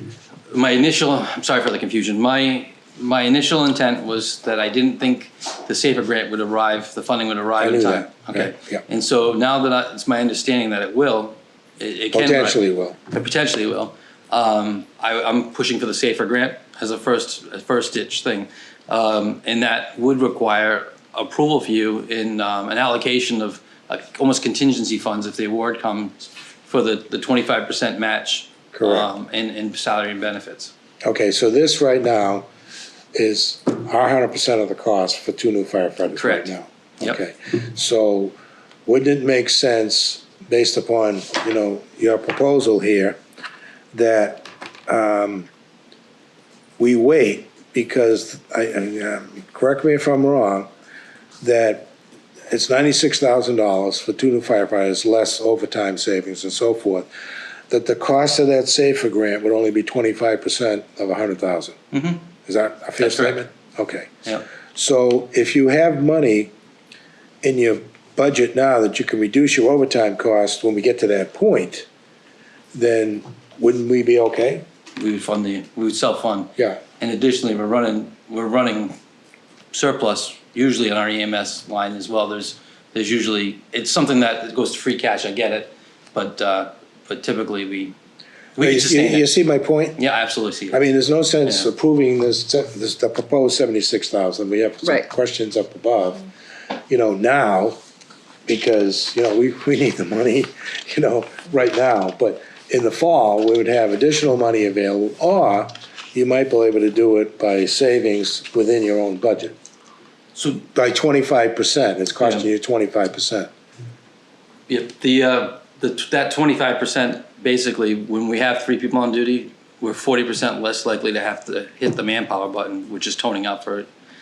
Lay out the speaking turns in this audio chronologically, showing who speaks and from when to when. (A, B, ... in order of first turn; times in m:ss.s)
0:00.5-0:12.6 A
0:07.6-0:08.8 B
0:12.1-0:13.0 B
0:13.1-0:30.7 A
0:28.7-0:29.1 B
0:31.0-0:32.5 B
0:33.1-0:43.2 B
0:36.1-0:37.2 A
0:43.9-0:45.5 B
0:46.8-0:50.7 B
0:51.4-0:51.9 B
0:52.5-0:57.1 B
0:57.7-1:01.8 B
1:01.9-1:02.3 A
1:02.4-1:04.1 B
1:03.0-1:03.4 A
1:04.7-1:06.5 B
1:07.4-1:11.9 B
1:12.7-1:14.6 B
1:15.0-1:19.0 A
1:19.7-1:28.0 A
1:28.6-1:29.3 A
1:28.6-1:30.0 B
1:30.0-1:30.8 A
1:30.7-1:36.2 B
1:36.9-1:37.8 B
1:38.5-1:49.6 B
1:50.4-1:53.5 B
1:52.2-1:52.5 A
1:54.7-2:03.9 A